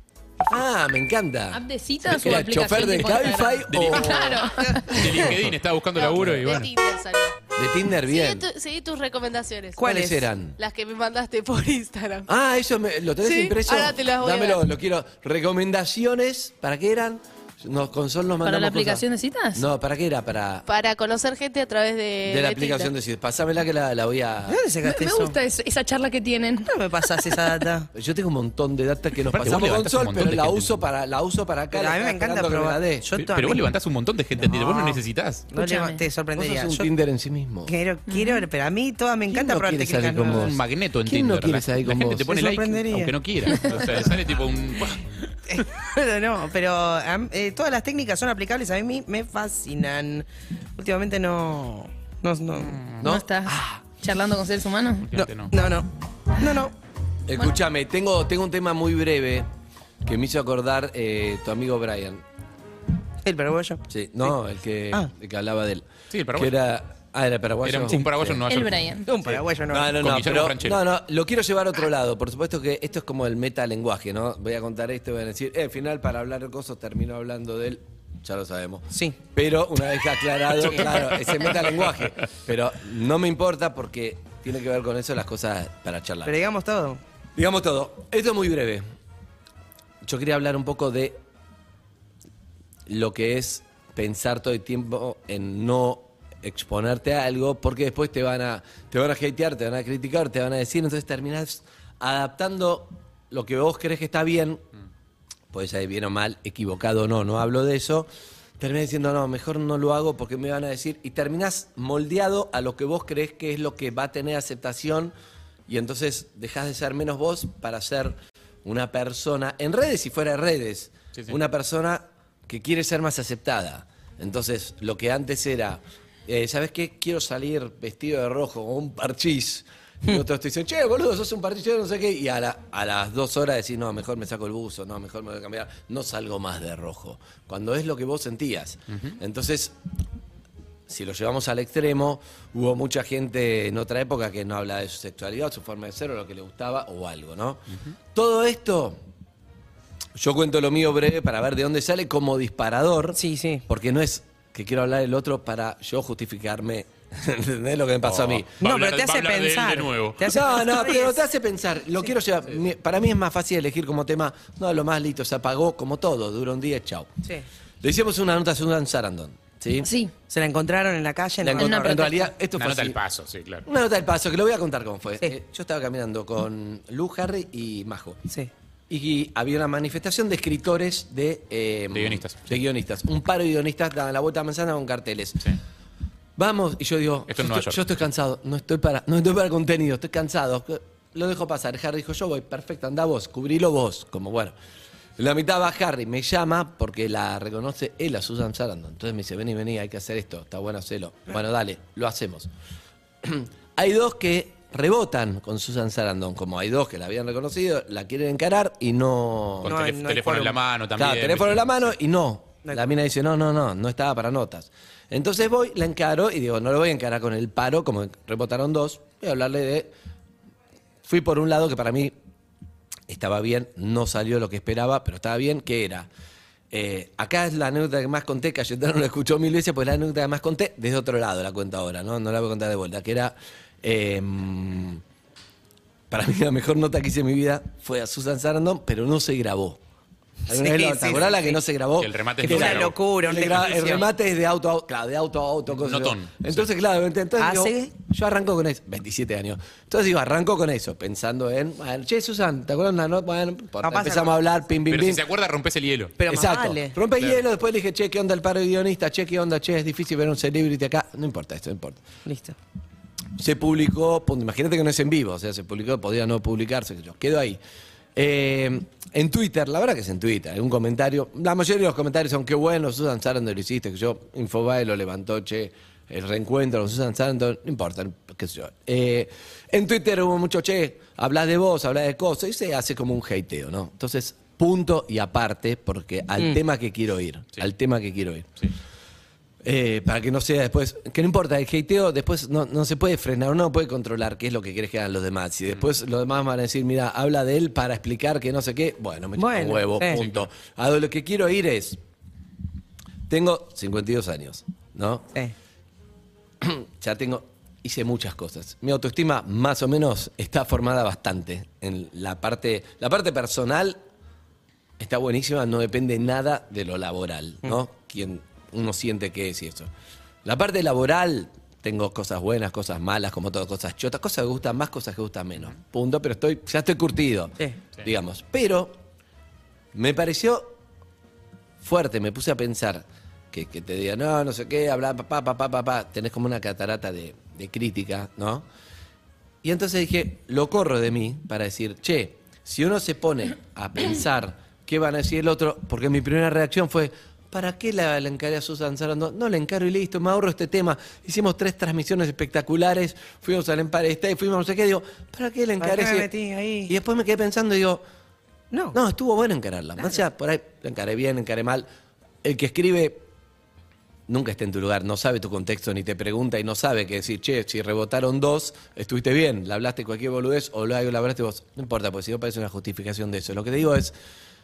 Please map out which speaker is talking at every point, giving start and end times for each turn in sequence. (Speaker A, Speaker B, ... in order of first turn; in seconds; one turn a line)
Speaker A: 0.5-4.4
Speaker B: 1.5-5.0
Speaker C: 3.7-6.7
Speaker D: 4.6-5.3
Speaker E: 5.9-7.3
Speaker A: 6.2-6.5
Speaker A: 7.5-8.4
Speaker E: 8.0-10.1
Speaker D: 9.8-10.2
Speaker A: 9.8-10.6
Speaker E: 10.6-12.3
Speaker A: 12.3-19.0
Speaker E: 13.2-14.7
Speaker B: 18.4-19.6
Speaker A: 19.6-20.7
Speaker E: 20.7-22.9
Speaker A: 22.2-24.6
Speaker D: 24.5-25.4
Speaker B: 24.8-27.4
Speaker D: 26.7-27.9
Speaker A: 27.9-33.0
Speaker C: 29.3-30.8
Speaker D: 31.7-33.7
Speaker C: 33.2-35.4
Speaker D: 34.4-35.0
Speaker D: 35.5-36.9
Speaker B: 35.5-36.0
Speaker A: 36.3-37.7
Speaker D: 37.6-40.5
Speaker B: 38.1-38.4
Speaker A: 39.3-40.5
Speaker C: 40.2-45.6
Speaker A: 41.0-42.3
Speaker D: 42.3-44.0
Speaker D: 45.5-52.8
Speaker C: 52.7-53.0
Speaker A: 53.0-53.8
Speaker B: 53.0-55.1
Speaker C: 55.1-55.6
Speaker D: 55.1-56.7
Speaker A: 57.3-59.5
Speaker A: 60.0-62.2
Speaker D: 63.2-64.3
Speaker A: 63.9-68.4
Speaker C: 66.1-66.5
Speaker C: 67.6-69.4
Speaker B: 68.5-69.0
Speaker D: 69.0-70.1
Speaker A: 69.7-86.3
Speaker C: 69.9-70.8
Speaker D: 78.9-79.2
Speaker C: 80.6-81.8
Speaker D: 86.2-87.0
Speaker A: 87.3-88.8
Speaker A: 90.0-91.2
Speaker A: 92.9-104.6
Speaker A: 105.5-108.1
Speaker A: 108.6-115.1
Speaker A: 115.7-139.7
Speaker C: 138.9-139.2
Speaker A: 140.9-147.6
Speaker A: 148.1-149.0
Speaker A: 150.2-158.5
Speaker D: 153.1-153.6
Speaker C: 158.0-160.3
Speaker D: 158.6-161.2
Speaker A: 160.2-167.1
Speaker A: 167.8-169.9
Speaker B: 169.8-170.1
Speaker D: 170.3-172.2
Speaker A: 171.4-173.0
Speaker B: 171.6-172.3
Speaker C: 172.6-173.6
Speaker A: 173.7-178.2
Speaker A: 178.9-185.4
Speaker C: 181.9-182.6
Speaker A: 186.3-194.5
Speaker C: 187.3-187.8
Speaker A: 195.2-202.5
Speaker A: 203.2-209.8
Speaker D: 209.6-210.6
Speaker C: 209.6-211.9
Speaker A: 210.9-219.9
Speaker A: 221.0-222.1
Speaker A: 223.1-226.1
Speaker A: 226.7-235.0
Speaker A: 236.1-239.8
Speaker D: 240.5-241.6
Speaker A: 240.5-255.2
Speaker C: 242.0-243.0
Speaker D: 242.4-244.1
Speaker C: 245.7-246.7
Speaker D: 247.4-247.9
Speaker D: 253.8-254.4
Speaker C: 254.9-256.1
Speaker D: 256.2-256.9
Speaker A: 256.3-262.0
Speaker C: 257.2-257.4
Speaker D: 262.2-262.6
Speaker A: 263.4-267.6
Speaker A: 268.1-288.5
Speaker A: 289.6-302.0
Speaker D: 299.4-300.2
Speaker C: 300.1-300.4
Speaker A: 303.3-305.3
Speaker A: 306.6-314.0
Speaker A: 315.0-319.9
Speaker A: 320.4-329.0
Speaker A: 329.9-330.8
Speaker A: 331.8-338.6
Speaker A: 339.6-356.3
Speaker D: 355.8-356.9
Speaker A: 356.9-358.0
Speaker D: 358.7-358.9
Speaker A: 358.9-361.9
Speaker A: 362.4-363.2
Speaker A: 364.3-374.1